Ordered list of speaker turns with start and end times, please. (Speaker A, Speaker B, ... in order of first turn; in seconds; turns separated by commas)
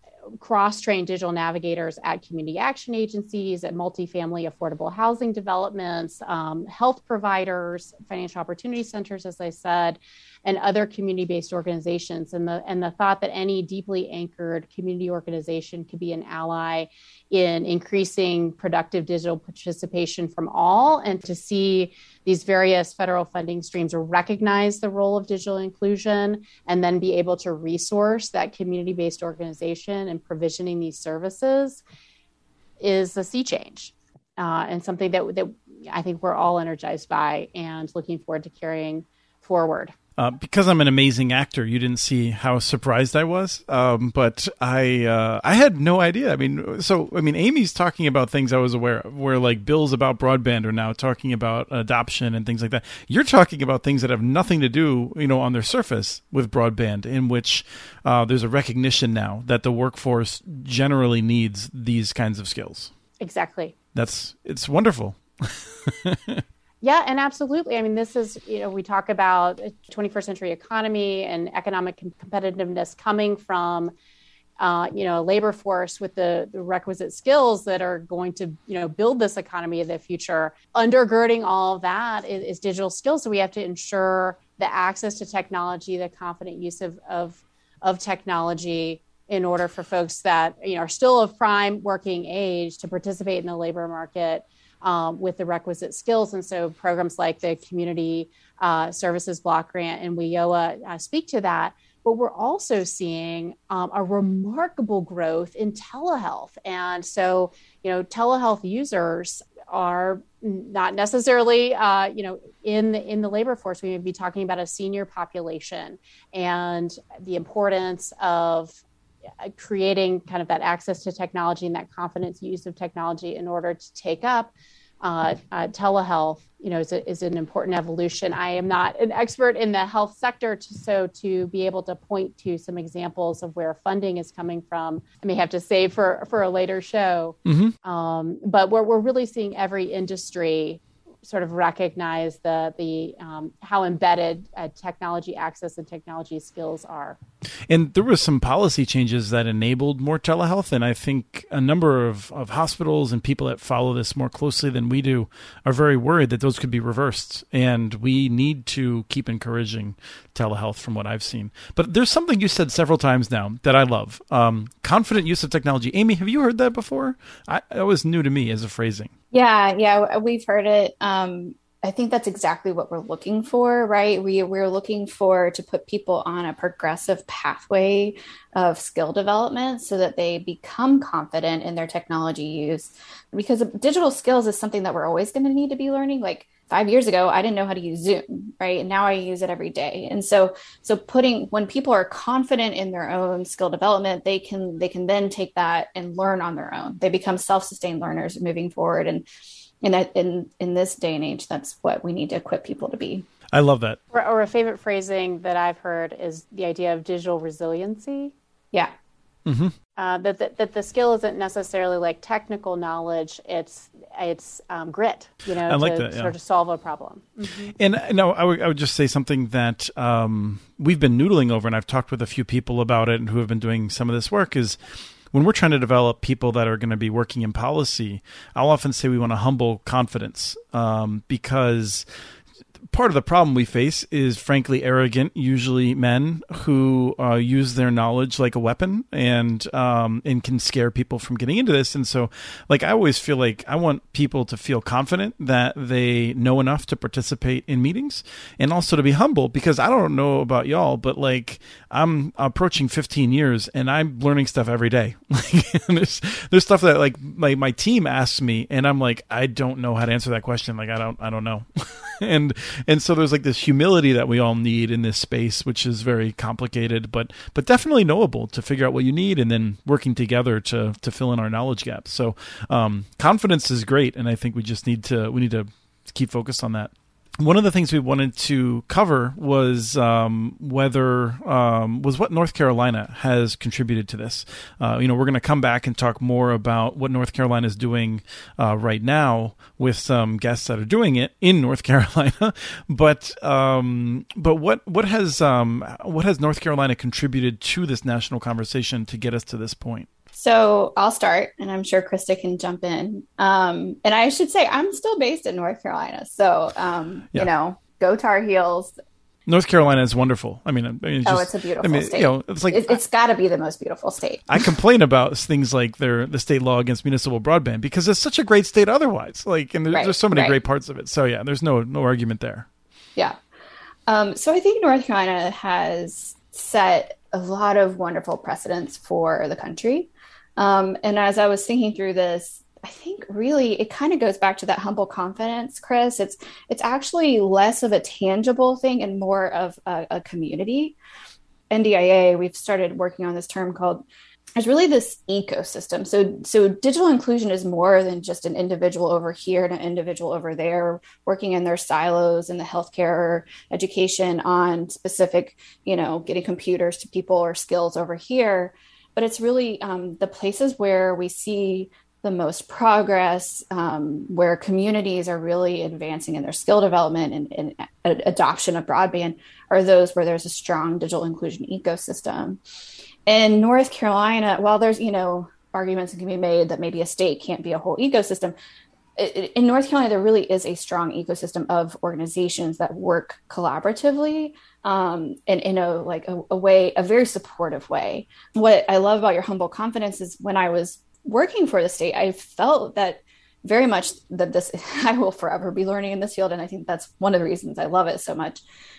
Speaker A: 0.3-31.8, Speaker A: 32.8-39.9, Speaker B: 40.2-62.9, Speaker A: 63.2-63.7, Speaker B: 63.9-66.4, Speaker A: 66.8-73.9, Speaker A: 74.6-118.8, Speaker A: 119.4-147.2, Speaker B: 137.4-137.7, Speaker B: 147.7-169.1, Speaker C: 169.3-199.2, Speaker C: 199.8-203.3, Speaker B: 203.5-204.0, Speaker A: 204.1-208.3, Speaker B: 209.4-209.7, Speaker A: 210.0-217.7, Speaker B: 215.6-216.3, Speaker B: 217.8-224.8, Speaker B: 225.3-232.1, Speaker B: 232.9-300.1, Speaker C: 300.3-308.9, Speaker B: 309.5-313.0, Speaker C: 311.2-314.7, Speaker B: 314.5-322.6, Speaker C: 319.9-320.5, Speaker C: 324.1-340.9, Speaker C: 341.7-344.0, Speaker C: 344.6-372.6, Speaker C: 373.3-378.5, Speaker C: 379.2-398.6